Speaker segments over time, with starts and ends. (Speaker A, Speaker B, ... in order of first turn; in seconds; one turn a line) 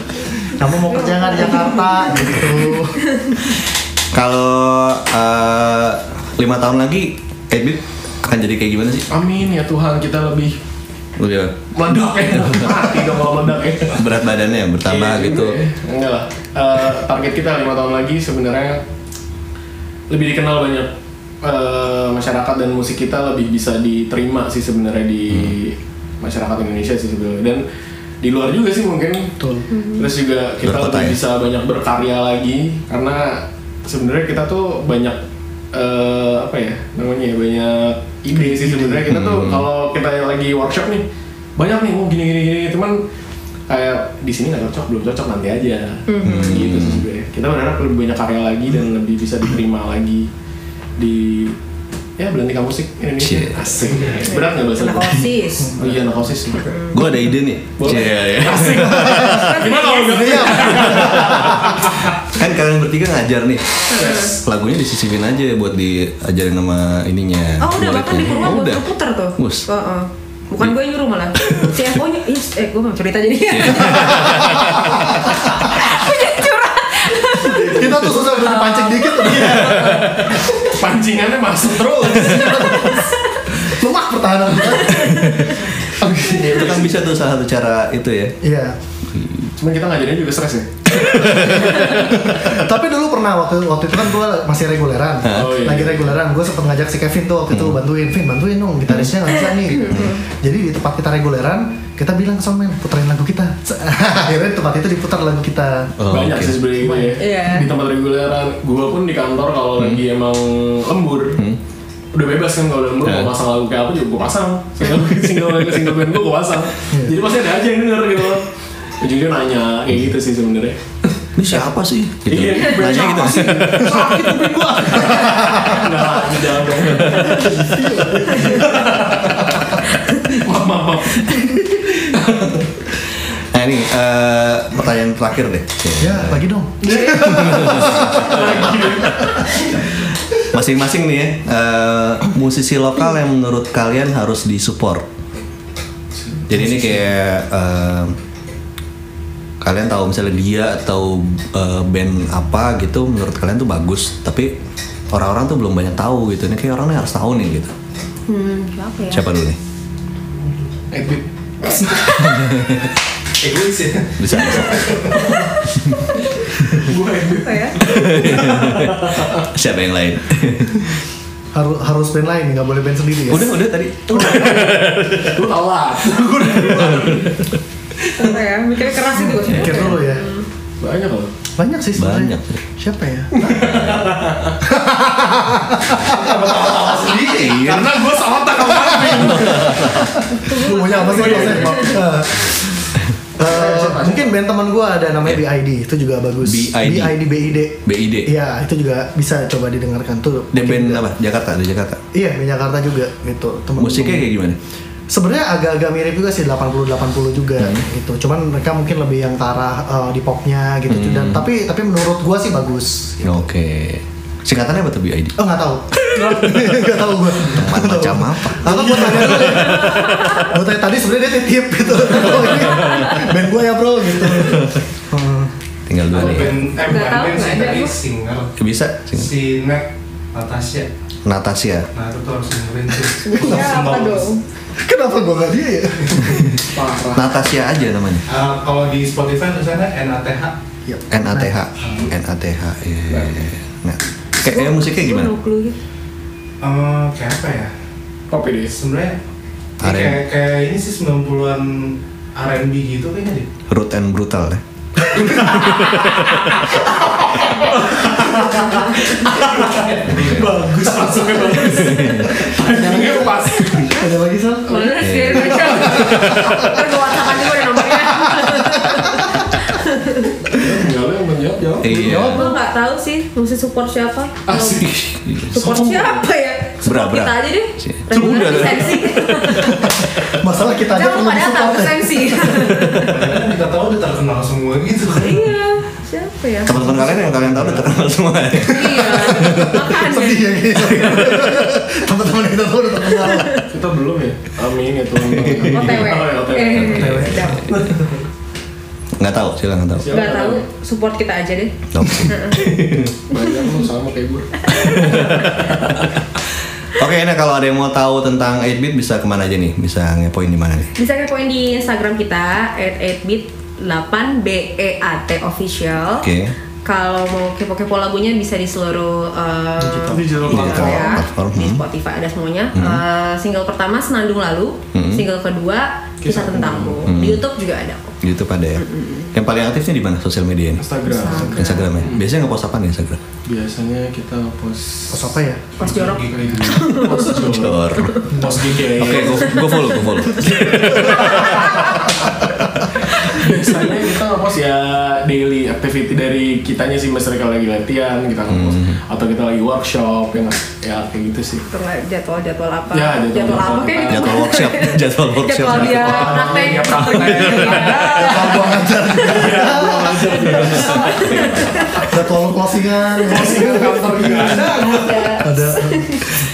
Speaker A: 0.5-3.4
Speaker B: 0.8-2.3
Speaker C: 4.1-9.1
Speaker D: 9.1-10.6
Speaker C: 11.2-11.6
Speaker D: 11.7-14.3
Speaker C: 12.4-12.7
Speaker C: 13.9-15.6
Speaker D: 14.8-18.8
Speaker D: 20.1-27.6
Speaker D: 28.2-29.4
Speaker A: 29.4-29.7
Speaker B: 29.7-30.1
Speaker D: 29.9-35.2
Speaker C: 30.6-31.2
Speaker D: 35.7-41.0
Speaker A: 38.3-39.1
Speaker C: 39.1-39.7
Speaker D: 41.6-43.0
Speaker D: 43.7-50.3
Speaker B: 46.1-46.7
Speaker C: 46.2-47.1
Speaker D: 51.0-51.6
Speaker D: 52.2-56.7
Speaker C: 53.2-53.6
Speaker E: 53.8-54.4
Speaker B: 54.2-55.8
Speaker B: 56.5-57.0
Speaker C: 56.9-59.7
Speaker D: 57.8-62.2
Speaker A: 58.6-61.6
Speaker B: 59.5-60.6
Speaker C: 60.7-61.8
Speaker C: 62.3-69.7
Speaker B: 63.9-64.4
Speaker D: 64.0-64.3
Speaker B: 67.6-79.3
Speaker C: 71.4-72.0
Speaker C: 73.5-75.9
Speaker A: 77.4-80.4
Speaker C: 79.3-80.2
Speaker D: 79.4-83.0
Speaker A: 82.0-85.4
Speaker B: 85.0-85.4
Speaker C: 85.0-85.6
Speaker D: 85.9-86.9
Speaker A: 86.0-86.4
Speaker C: 86.2-88.4
Speaker A: 88.4-88.8
Speaker C: 89.1-89.5
Speaker D: 89.6-92.3
Speaker C: 91.0-92.1
Speaker A: 92.3-106.0
Speaker C: 95.2-95.7
Speaker D: 95.3-96.2
Speaker C: 97.5-97.8
Speaker B: 99.4-100.2
Speaker C: 99.8-100.1
Speaker C: 106.0-106.7
Speaker D: 106.1-111.4
Speaker A: 106.8-107.3
Speaker B: 107.2-107.7
Speaker D: 112.1-118.5
Speaker C: 113.0-113.3
Speaker A: 116.9-117.2
Speaker D: 119.0-120.8
Speaker C: 121.4-124.2
Speaker D: 122.2-132.9
Speaker B: 122.8-123.3
Speaker B: 124.0-124.7
Speaker A: 124.0-125.7
Speaker C: 127.0-127.3
Speaker A: 127.6-128.5
Speaker C: 133.5-136.4
Speaker A: 136.0-138.5
Speaker D: 136.8-139.9
Speaker C: 137.0-139.4
Speaker C: 140.5-145.1
Speaker D: 146.2-147.1
Speaker C: 146.5-148.2
Speaker C: 149.6-154.5
Speaker C: 155.1-157.7
Speaker B: 158.3-159.3
Speaker C: 159.1-159.6
Speaker D: 160.9-162.4
Speaker C: 162.2-162.7
Speaker E: 163.4-165.3
Speaker C: 164.2-165.1
Speaker D: 165.2-165.6
Speaker C: 165.8-166.1
Speaker D: 166.4-169.5
Speaker C: 166.6-166.9
Speaker B: 167.4-167.8
Speaker C: 167.8-170.9
Speaker A: 171.5-173.6
Speaker C: 173.3-175.4
Speaker D: 174.1-177.5
Speaker C: 176.6-177.3
Speaker D: 178.1-178.3
Speaker B: 178.2-180.5
Speaker A: 179.1-180.3
Speaker C: 179.6-179.9
Speaker D: 180.8-181.3
Speaker A: 181.6-183.6
Speaker C: 182.0-182.6
Speaker D: 183.4-184.6
Speaker A: 184.6-187.2
Speaker D: 186.0-192.1
Speaker E: 186.2-187.2
Speaker C: 187.3-190.2
Speaker A: 189.1-201.1
Speaker B: 190.6-191.1
Speaker D: 193.4-194.3
Speaker C: 196.4-197.3
Speaker C: 197.8-198.3
Speaker C: 200.5-202.0
Speaker A: 202.1-204.3
Speaker C: 203.8-204.6
Speaker A: 205.1-213.4
Speaker C: 210.9-211.5
Speaker C: 213.2-215.4
Speaker A: 215.4-225.5
Speaker D: 216.1-216.7
Speaker C: 217.5-220.0
Speaker B: 222.8-223.2
Speaker C: 225.9-226.6
Speaker D: 226.1-226.5
Speaker E: 226.2-228.5
Speaker B: 226.8-227.9
Speaker C: 228.6-229.3
Speaker E: 229.1-230.9
Speaker C: 231.3-231.9
Speaker E: 231.9-234.3
Speaker B: 233.2-234.4
Speaker A: 234.8-236.5
Speaker D: 236.7-237.3
Speaker C: 237.1-238.2
Speaker E: 238.3-240.6
Speaker A: 240.9-241.6
Speaker C: 241.1-245.3
Speaker E: 241.8-242.1
Speaker D: 243.1-243.4
Speaker B: 244.4-245.8
Speaker E: 246.6-247.7
Speaker D: 248.3-248.8
Speaker E: 248.7-249.2
Speaker C: 249.8-250.2
Speaker E: 249.8-253.5
Speaker C: 253.7-254.6
Speaker C: 255.2-256.7
Speaker D: 255.3-256.1
Speaker D: 257.1-264.1
Speaker A: 258.2-258.9
Speaker E: 259.7-260.3
Speaker C: 260.1-260.5
Speaker A: 261.0-266.5
Speaker C: 261.8-262.3
Speaker B: 264.7-270.6
Speaker C: 265.0-266.7
Speaker D: 265.3-266.3
Speaker A: 267.8-269.4
Speaker D: 270.5-272.4
Speaker C: 271.8-272.5
Speaker A: 272.0-272.6
Speaker B: 272.2-274.8
Speaker D: 274.5-274.9
Speaker C: 274.6-275.5
Speaker D: 275.5-276.2
Speaker B: 275.5-279.9
Speaker C: 276.9-279.6
Speaker A: 279.5-283.3
Speaker B: 280.8-283.2
Speaker E: 283.1-285.5
Speaker B: 285.2-286.8
Speaker C: 286.7-289.9
Speaker A: 286.7-287.8
Speaker B: 288.7-290.5
Speaker A: 288.9-293.6
Speaker C: 290.9-291.7
Speaker B: 293.3-293.6
Speaker D: 293.7-298.2
Speaker C: 295.6-295.9
Speaker B: 295.7-297.7
Speaker A: 296.9-298.0
Speaker C: 297.0-297.2
Speaker C: 299.2-300.3
Speaker D: 300.0-300.7
Speaker B: 300.1-301.7
Speaker C: 301.9-303.1
Speaker B: 302.2-302.8
Speaker D: 303.3-306.1
Speaker B: 303.4-303.8
Speaker B: 304.6-305.5
Speaker C: 304.7-306.0
Speaker C: 306.9-310.9
Speaker B: 311.0-316.3
Speaker C: 316.2-316.6
Speaker B: 316.9-328.2
Speaker A: 319.8-320.8
Speaker D: 320.1-321.2
Speaker C: 320.5-321.8
Speaker C: 322.7-323.0
Speaker C: 324.9-325.3
Speaker D: 326.2-327.1
Speaker C: 327.1-327.4
Speaker C: 328.2-330.9
Speaker B: 328.8-329.3
Speaker D: 330.8-332.3
Speaker B: 331.1-332.0
Speaker C: 331.4-333.2
Speaker D: 333.5-335.4
Speaker A: 335.1-335.8
Speaker B: 335.8-338.3
Speaker E: 335.8-337.0
Speaker D: 336.3-339.8
Speaker C: 337.5-338.2
Speaker A: 338.3-338.7
Speaker C: 338.8-341.9
Speaker B: 339.4-340.4
Speaker D: 340.4-342.2
Speaker D: 343.1-351.7
Speaker C: 348.5-349.0
Speaker B: 351.7-359.4
Speaker D: 352.9-354.6
Speaker C: 354.1-356.6
Speaker D: 355.7-362.1
Speaker A: 356.6-357.0
Speaker C: 357.2-358.0
Speaker A: 358.1-361.0
Speaker B: 360.5-362.1
Speaker A: 362.1-366.3
Speaker D: 363.2-365.3
Speaker B: 364.6-366.3